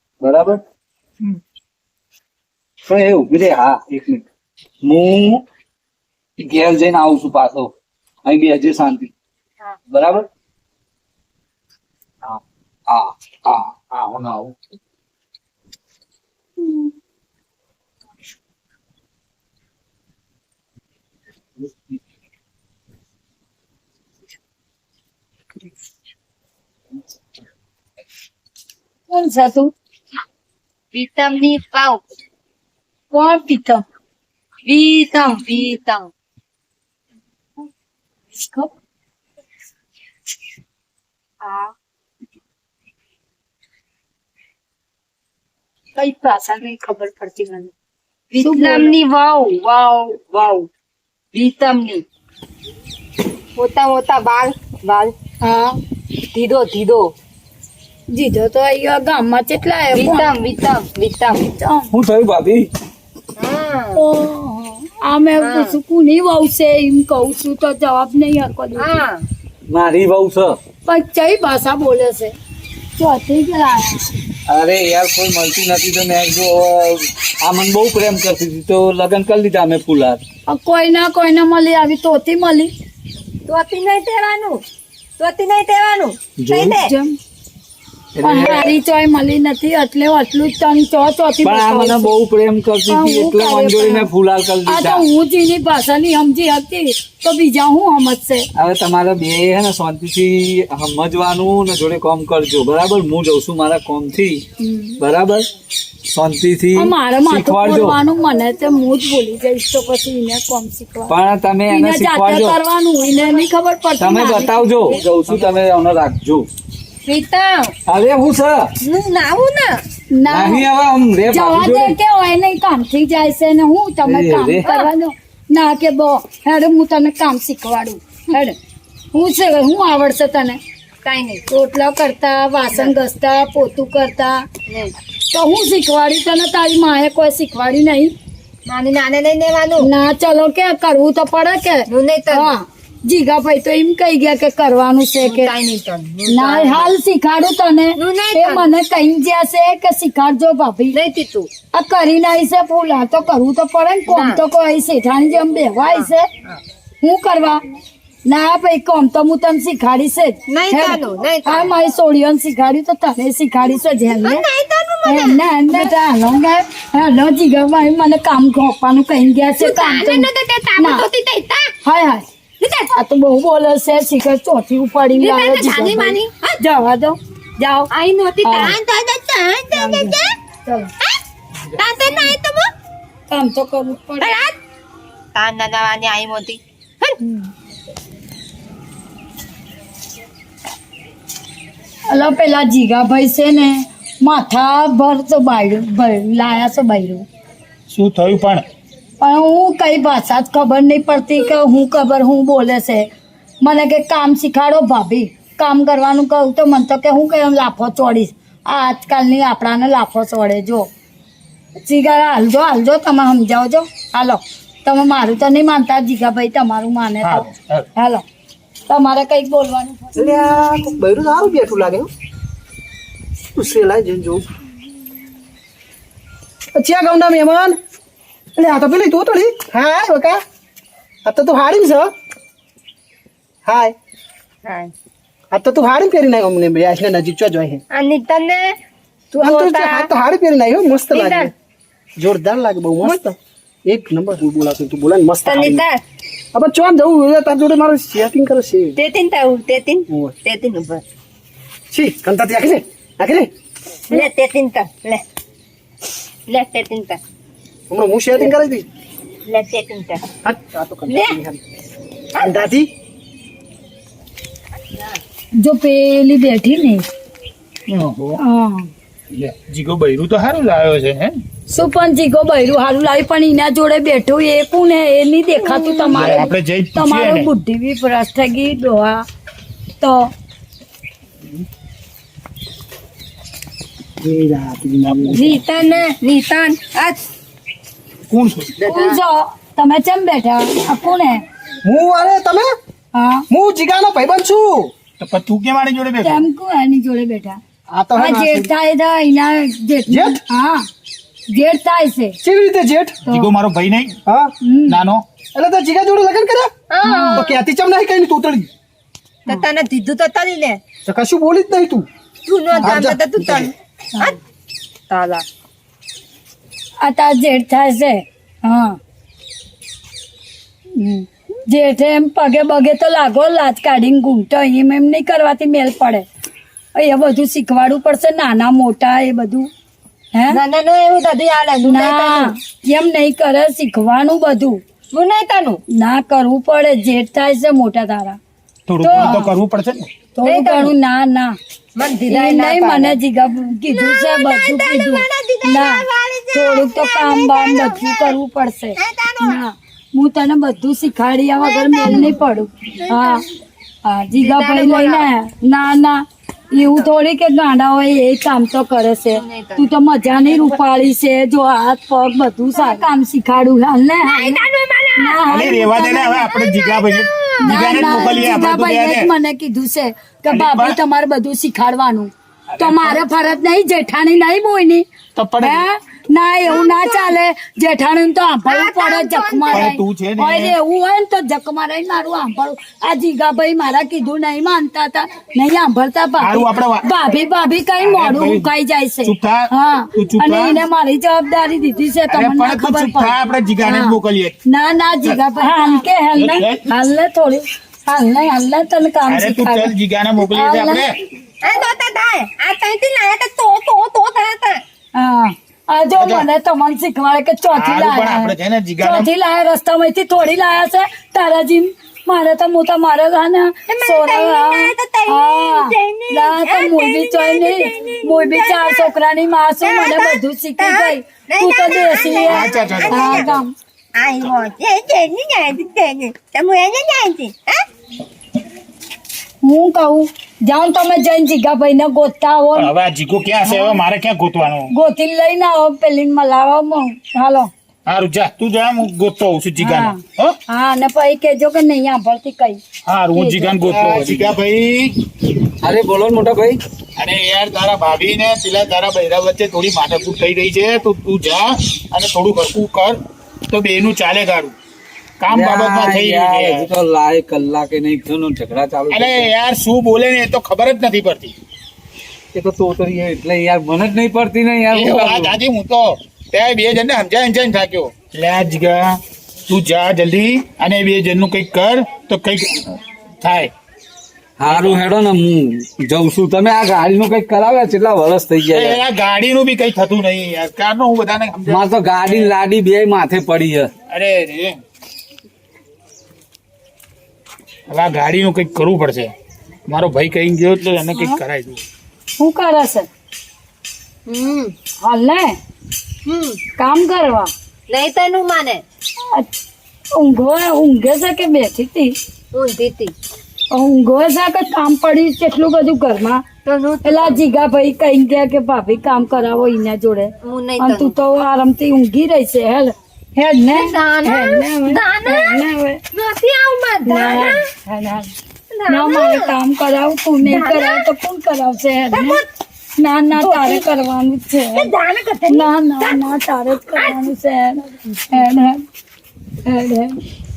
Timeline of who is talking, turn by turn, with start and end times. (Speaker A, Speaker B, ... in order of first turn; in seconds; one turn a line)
Speaker A: 0.2-0.6
Speaker A: 2.9-4.2
Speaker A: 4.8-5.4
Speaker A: 6.4-7.7
Speaker A: 8.2-9.1
Speaker A: 9.9-10.3
Speaker A: 12.9-14.5
Speaker B: 29.1-29.7
Speaker C: 30.9-32.0
Speaker B: 33.1-33.8
Speaker C: 34.7-36.1
Speaker B: 38.4-38.7
Speaker B: 41.4-41.7
Speaker B: 46.0-47.7
Speaker C: 48.3-50.7
Speaker B: 48.4-48.9
Speaker C: 51.3-52.0
Speaker C: 53.6-55.1
Speaker B: 55.4-55.8
Speaker C: 56.3-57.1
Speaker B: 58.1-60.3
Speaker C: 59.9-61.4
Speaker B: 61.5-61.9
Speaker A: 61.9-62.7
Speaker C: 63.4-64.0
Speaker B: 63.9-69.0
Speaker C: 65.4-65.8
Speaker C: 68.8-69.2
Speaker A: 69.7-70.6
Speaker B: 70.8-72.3
Speaker B: 73.0-74.1
Speaker A: 74.5-80.2
Speaker B: 80.5-82.7
Speaker C: 83.5-84.6
Speaker C: 85.2-86.9
Speaker A: 86.4-86.8
Speaker B: 86.8-87.2
Speaker A: 88.2-88.7
Speaker B: 88.2-92.2
Speaker A: 91.4-95.0
Speaker B: 92.9-94.1
Speaker B: 94.7-98.5
Speaker A: 98.5-104.4
Speaker B: 104.6-105.0
Speaker A: 105.0-105.5
Speaker A: 106.1-108.0
Speaker B: 106.8-111.1
Speaker A: 111.1-112.6
Speaker B: 111.7-115.0
Speaker A: 114.0-116.5
Speaker C: 117.0-117.7
Speaker A: 117.9-118.7
Speaker C: 118.8-119.8
Speaker B: 120.1-120.7
Speaker A: 120.2-122.0
Speaker B: 121.3-128.6
Speaker A: 124.0-124.7
Speaker C: 124.6-124.9
Speaker B: 129.1-130.6
Speaker C: 131.0-131.4
Speaker B: 131.5-134.4
Speaker C: 134.7-134.9
Speaker B: 135.3-138.1
Speaker C: 138.7-139.9
Speaker B: 139.8-145.5
Speaker C: 141.9-142.5
Speaker C: 145.2-146.9
Speaker B: 146.3-151.0
Speaker C: 147.9-148.7
Speaker C: 150.9-151.5
Speaker B: 151.7-156.3
Speaker C: 154.1-154.4
Speaker C: 155.8-156.6
Speaker B: 157.0-157.6
Speaker B: 158.2-164.4
Speaker C: 160.5-161.7
Speaker C: 164.1-165.9
Speaker B: 165.0-171.0
Speaker C: 169.6-171.7
Speaker B: 171.8-172.2
Speaker C: 172.6-172.9
Speaker B: 172.9-177.9
Speaker C: 175.1-176.6
Speaker C: 177.9-180.3
Speaker B: 178.4-178.8
Speaker B: 179.7-180.9
Speaker C: 181.8-182.7
Speaker B: 183.3-184.4
Speaker C: 184.2-184.5
Speaker C: 185.3-187.2
Speaker B: 192.1-197.2
Speaker D: 197.9-198.6
Speaker B: 199.2-203.1
Speaker B: 203.6-210.9
Speaker B: 211.8-218.2
Speaker D: 217.2-217.9
Speaker B: 218.9-220.3
Speaker E: 220.2-222.1
Speaker E: 223.5-224.4
Speaker E: 226.7-227.8
Speaker E: 228.5-230.4
Speaker E: 231.2-232.1
Speaker E: 233.6-233.9
Speaker C: 234.6-234.9
Speaker E: 235.5-237.8
Speaker C: 237.9-238.7
Speaker C: 239.3-240.1
Speaker E: 239.3-241.5
Speaker C: 241.1-241.5
Speaker E: 242.2-245.8
Speaker C: 245.4-246.0
Speaker E: 246.5-248.9
Speaker C: 248.9-251.0
Speaker E: 251.9-253.5
Speaker C: 254.1-255.2
Speaker C: 256.5-257.2
Speaker E: 257.9-258.9
Speaker C: 259.5-260.2
Speaker E: 260.4-261.6
Speaker C: 261.1-261.4
Speaker C: 262.4-262.6
Speaker E: 262.4-262.9
Speaker B: 265.6-267.0
Speaker D: 267.9-268.4
Speaker B: 268.4-268.9
Speaker D: 269.3-271.4
Speaker B: 271.7-279.2
Speaker C: 275.6-276.4
Speaker D: 276.1-277.5
Speaker B: 280.0-280.3
Speaker E: 284.2-285.5
Speaker D: 285.1-285.6
Speaker C: 285.3-287.2
Speaker D: 288.3-288.7
Speaker B: 288.8-291.4
Speaker C: 288.9-289.2
Speaker E: 291.8-292.7
Speaker B: 293.1-293.4
Speaker E: 293.5-294.9
Speaker D: 295.2-296.4
Speaker B: 296.2-297.6
Speaker E: 297.9-298.7
Speaker B: 298.1-300.9
Speaker E: 300.1-300.4
Speaker B: 301.5-302.4
Speaker E: 302.4-303.2
Speaker D: 303.2-304.2
Speaker E: 304.2-304.5
Speaker B: 304.6-305.0
Speaker D: 304.9-305.2
Speaker E: 305.5-306.7
Speaker C: 306.9-307.6
Speaker B: 307.0-307.4
Speaker E: 307.3-308.7
Speaker C: 309.5-310.8
Speaker E: 311.0-312.1
Speaker C: 312.4-314.4
Speaker B: 312.7-313.0
Speaker E: 312.8-313.7
Speaker C: 315.1-315.4
Speaker B: 317.0-319.0
Speaker B: 320.9-326.2
Speaker B: 326.9-329.7
Speaker B: 330.3-330.6
Speaker C: 330.5-332.5
Speaker B: 331.8-334.8
Speaker C: 335.1-335.8
Speaker B: 335.9-338.4
Speaker D: 338.9-340.1
Speaker B: 339.0-339.5
Speaker B: 340.4-341.5
Speaker C: 340.4-340.9
Speaker C: 341.9-343.2
Speaker B: 342.3-353.4
Speaker C: 343.9-348.4
Speaker C: 349.0-349.6
Speaker C: 351.6-352.3
Speaker C: 353.0-353.4
Speaker B: 354.1-364.6
Speaker C: 354.4-355.2
Speaker C: 356.8-357.1
Speaker C: 359.3-359.9
Speaker C: 360.5-360.7
Speaker C: 362.7-363.0
Speaker C: 364.2-368.6
Speaker B: 365.2-366.4
Speaker D: 365.5-369.3
Speaker B: 367.6-375.0
Speaker D: 370.5-371.0
Speaker D: 372.8-373.2
Speaker D: 375.3-375.9
Speaker B: 375.6-401.1
Speaker C: 376.6-377.3
Speaker C: 378.6-379.9
Speaker D: 379.7-380.7
Speaker D: 386.4-387.1
Speaker D: 388.0-388.7
Speaker D: 389.2-390.8
Speaker D: 392.3-394.5
Speaker D: 396.4-396.8
Speaker D: 399.3-401.1
Speaker C: 401.6-404.8
Speaker B: 405.1-423.7
Speaker D: 406.1-406.5
Speaker D: 407.7-409.3
Speaker C: 413.9-419.1
Speaker C: 419.8-423.5
Speaker D: 422.4-423.6
Speaker C: 424.2-427.8
Speaker B: 429.6-432.9
Speaker D: 432.8-434.9
Speaker B: 433.6-434.0
Speaker B: 434.9-437.7
Speaker D: 438.1-440.6
Speaker B: 439.8-442.8
Speaker D: 443.1-445.2
Speaker B: 443.3-444.0
Speaker A: 443.9-444.5
Speaker A: 445.8-446.8
Speaker D: 447.2-453.2
Speaker D: 453.7-454.7
Speaker D: 455.4-456.9
Speaker A: 455.5-459.5
Speaker D: 459.1-461.5
Speaker A: 462.5-465.6
Speaker D: 464.9-469.2
Speaker D: 469.7-473.7
Speaker A: 474.6-479.0
Speaker D: 474.7-475.0
Speaker D: 478.7-482.5
Speaker A: 481.7-483.9
Speaker D: 484.1-484.8
Speaker D: 487.9-489.3
Speaker D: 489.9-491.8
Speaker B: 491.1-491.4
Speaker B: 492.4-493.1
Speaker C: 494.3-494.7
Speaker B: 495.0-495.5
Speaker C: 496.2-496.6
Speaker B: 496.8-497.5
Speaker C: 497.9-498.8
Speaker B: 500.1-502.1
Speaker C: 502.5-503.1
Speaker B: 503.7-506.4
Speaker C: 506.6-507.4
Speaker B: 507.0-516.0
Speaker C: 510.4-511.1
Speaker C: 513.7-515.6
Speaker C: 516.1-517.7
Speaker B: 517.0-518.3
Speaker C: 518.7-519.5
Speaker B: 518.9-522.4
Speaker C: 520.4-521.0
Speaker C: 522.1-522.4
Speaker B: 523.0-524.9
Speaker C: 523.4-523.9
Speaker C: 524.7-526.2
Speaker B: 525.5-528.8
Speaker C: 526.9-527.3
Speaker B: 529.6-530.1